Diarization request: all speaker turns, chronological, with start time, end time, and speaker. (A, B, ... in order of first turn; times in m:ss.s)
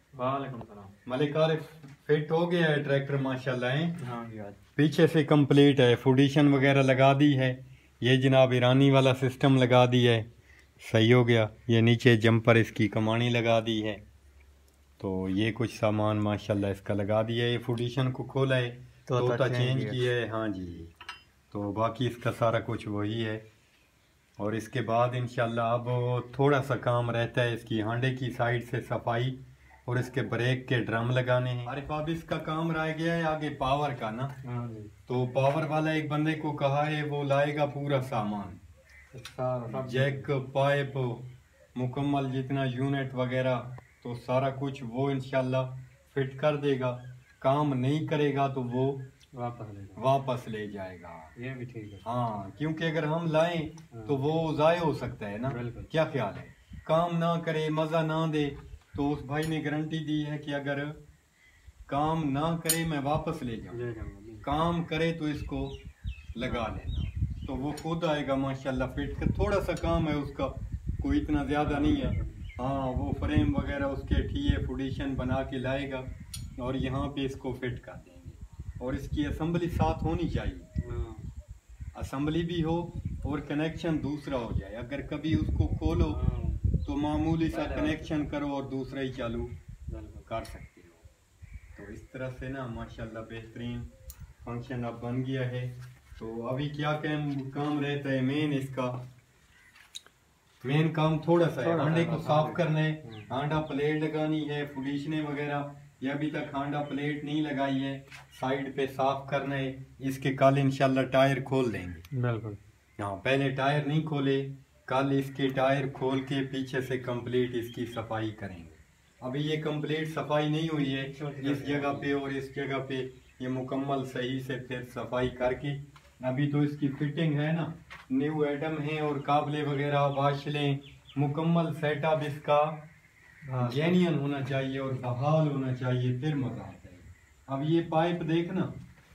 0:00.1-0:00.9 A
0:01.0-0:04.0 B
0:04.0-0:04.6 A
0:04.8-0:10.3 B
0:10.8-0:14.0 B
0:15.0-0:20.9 B
0:19.1-0:20.1 A
0:21.5-0:23.4 B
0:24.4-0:34.3 B
0:34.4-0:34.9 A
0:35.1-0:38.6 B
0:39.1-0:40.3 A
0:39.7-0:49.0 B
0:49.3-0:50.0 A
0:50.0-0:51.3 B
0:51.4-0:52.0 A
0:52.0-1:01.0 B
0:53.9-0:54.2 A
0:55.4-0:55.9 A
1:01.9-1:03.8 B
1:03.7-1:04.5 A
1:04.4-1:05.8 B
1:06.3-1:16.1 B
1:06.4-1:06.7 A
1:11.6-1:12.4 A
1:16.6-1:20.7 B
1:20.8-1:21.3 A
1:21.9-1:26.2 B
1:26.1-1:26.7 A
1:26.8-1:29.5 B
1:27.5-1:28.3 A
1:29.9-1:30.3 A
1:30.3-1:31.0 B
1:31.8-1:33.9 B
1:34.4-1:39.0 B
1:40.6-1:52.0 B
1:41.6-1:43.3 A
1:52.1-1:52.6 A
1:53.0-2:12.8 B
2:00.8-2:02.1 A
2:13.4-2:14.0 A
2:13.6-2:18.8 B